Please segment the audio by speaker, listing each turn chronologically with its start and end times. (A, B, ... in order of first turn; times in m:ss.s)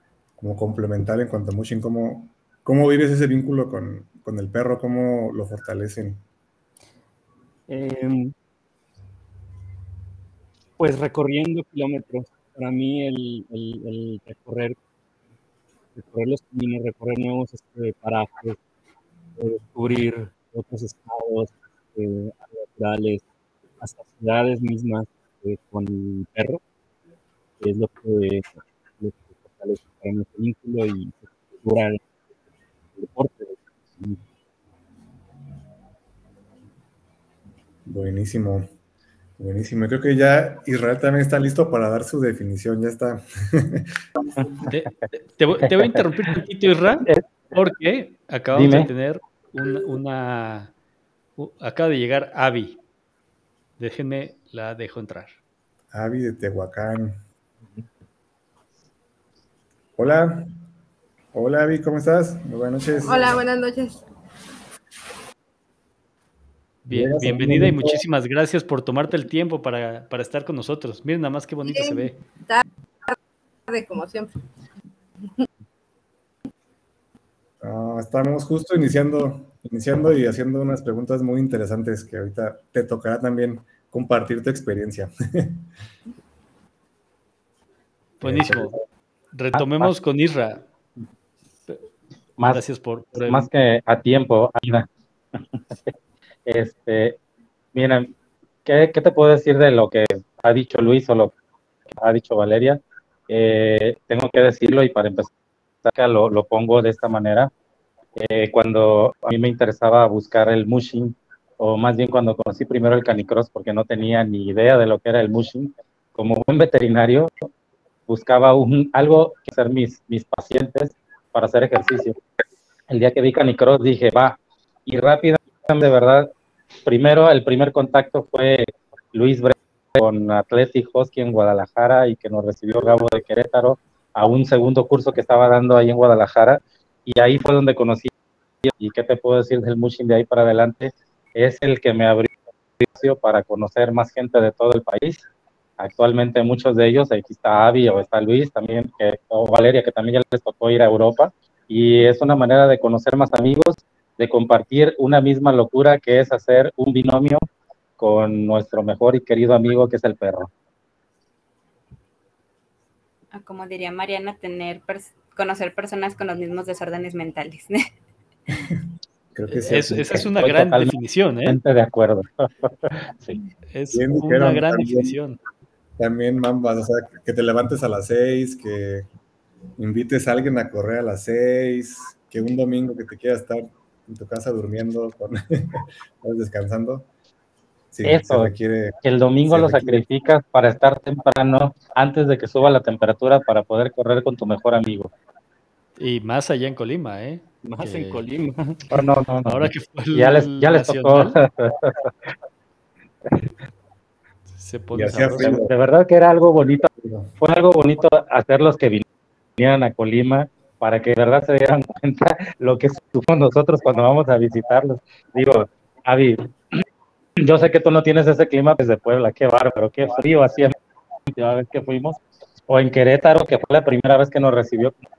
0:00.4-0:06.2 A
0:07.7-0:08.3 B
0:10.8-0:14.8 B
0:15.9-0:18.6 B
0:19.4-0:23.2 B
0:23.8-0:26.6 B
0:27.6-0:32.0 B
0:33.0-0:34.2 B
0:37.8-0:38.7 A
0:39.4-0:44.5 A
0:44.7-0:50.7 C
0:48.5-0:48.9 D
0:51.4-0:52.8 C
0:53.8-0:55.4 C
0:55.9-0:57.2 A
1:00.0-1:00.5 A
1:01.3-1:03.4 A
1:03.0-1:04.0 E
1:06.8-1:12.2 C
1:06.9-1:08.0 A
1:11.6-1:13.2 E
1:13.7-1:14.4 E
1:17.6-1:25.7 A
1:28.2-1:28.8 C
1:28.2-1:28.8 A
1:29.3-1:30.6 C
1:29.6-1:29.9 D
1:32.4-1:33.5 C
1:33.2-1:35.4 D
1:36.4-1:37.2 D
1:37.7-1:38.1 D
1:38.6-1:41.3 D
1:42.0-1:45.3 D
1:45.8-1:47.5 D
1:48.2-1:57.5 D
1:58.1-2:02.2 D
2:02.9-2:06.3 D
2:06.8-2:18.1 D
2:18.6-2:25.2 D
2:25.8-2:37.4 D
2:38.0-2:40.5 D
2:43.3-2:47.8 F
2:49.3-2:50.3 A
2:49.5-2:51.6 C
2:50.1-2:50.9 D
2:51.4-2:53.4 D
2:53.7-2:55.4 C
2:53.9-2:55.2 A
2:56.0-2:59.1 A
2:59.8-3:07.1 A
3:07.9-3:10.1 A
3:08.0-3:15.1 D
3:16.0-3:18.2 C
3:17.6-3:18.8 B
3:18.9-3:22.1 D
3:19.5-3:21.4 C
3:24.5-3:25.6 C
3:24.9-3:25.7 A
3:25.4-3:26.9 D
3:26.9-3:27.4 A
3:27.4-3:29.0 D
3:29.6-3:36.8 D
3:37.4-3:40.8 D
3:41.3-3:45.0 D